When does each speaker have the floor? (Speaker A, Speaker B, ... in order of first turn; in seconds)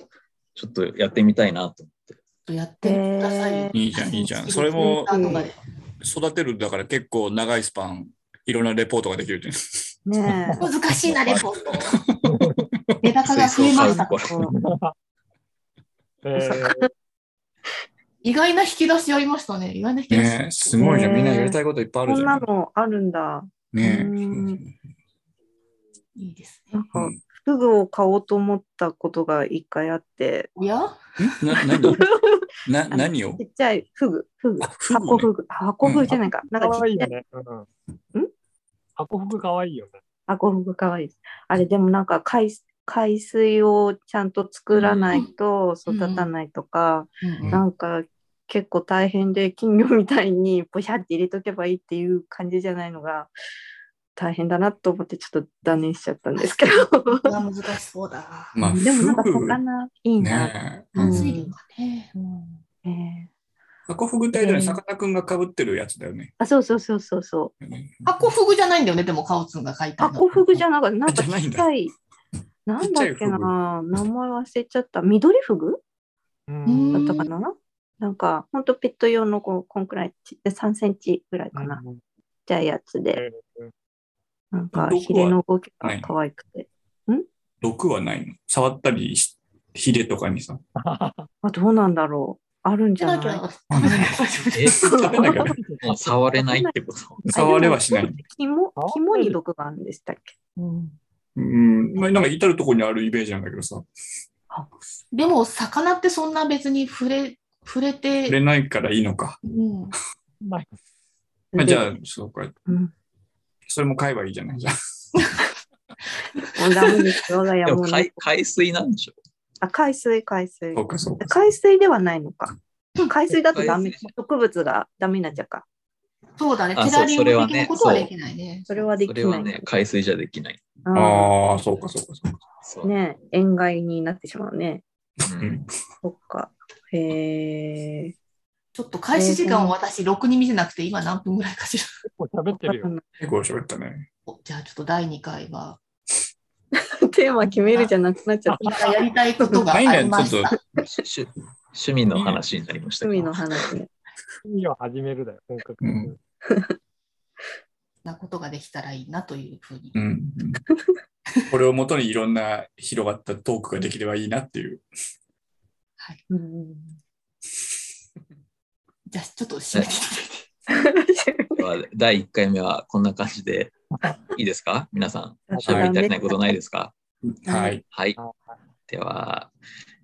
Speaker A: 0.5-2.2, 10.9-11.6, 13.3-14.3, 44.7-45.2, 94.5-94.8, 95.8-97.2, 117.7-119.2, 123.5-124.1, 126.7-128.1, 129.0-130.6, 132.6-132.9, 135.2-135.6, 150.8-153.4, 171.6-173.7, 174.3-176.9, 177.9-178.2, 178.9-179.5
Speaker B: 2.5-5.6, 10.6-12.0, 13.0-14.1, 18.2-20.8, 26.1-26.7, 30.6-31.0, 45.9-46.3, 47.2-47.6, 56.4-58.5, 60.9-62.5, 68.0-70.2, 76.7-77.2, 93.0-95.0, 100.6-101.0, 105.1-108.4, 109.4-110.0, 126.4-128.9, 138.7-141.9, 144.3-145.8, 147.4-147.9, 148.6-150.6, 158.0-159.9, 169.1-170.5
Speaker C: 2.8-3.8, 4.8-5.5, 10.1-10.7, 13.8-14.5, 16.4-16.9, 20.8-24.6, 26.7-30.5, 31.8-37.1, 40.3-53.3, 54.1-57.3, 58.6-61.5, 62.8-63.3, 64.3-64.8, 66.4-67.5, 70.0-71.9, 72.7-75.8, 76.9-81.8, 82.5-83.2, 84.5-87.2, 91.4-93.9, 94.9-95.3, 96.3-96.8, 97.3-100.3, 111.5-112.0, 112.7-112.9, 116.5-118.2, 119.6-122.5, 123.0-125.6, 128.7-129.7, 130.8-131.3, 132.8-134.8, 136.0-138.1, 139.1-139.8, 142.6-143.0, 147.0-148.9, 153.0-153.9, 156.5-156.7, 166.3-167.0, 170.7-171.6, 175.5-176.6, 177.4-177.8
Speaker D: 3.7-5.1, 6.0-9.5, 10.2-10.6, 20.1-22.5, 23.7-24.7, 31.2-32.0, 32.6-33.4, 34.6-35.3, 35.8-36.2, 58.5-59.6, 60.2-61.4, 63.9-66.3, 67.6-68.3, 71.1-71.7, 72.8-73.5, 84.7-86.1, 87.6-90.6, 93.7-94.2, 94.8-95.6, 97.2-98.2, 101.3-103.9, 108.2-109.4, 111.5-112.5, 113.7-114.7, 120.7-121.4, 130.9-132.4, 135.3-135.7, 143.2-144.1, 149.7-150.5, 152.1-152.4, 155.8-156.1, 159.9-160.6, 161.5-164.8, 177.2-177.8
Speaker E: 12.2-12.7, 14.4-14.9, 16.2-16.9, 36.5-37.7, 39.0-40.0, 76.5-77.2, 81.5-82.0, 83.1-83.7, 90.8-91.3, 95.3-96.2, 98.8-99.4, 110.4-110.7, 142.1-142.9, 148.6-148.9, 154.4-156.2, 175.5-175.9, 178.2-178.6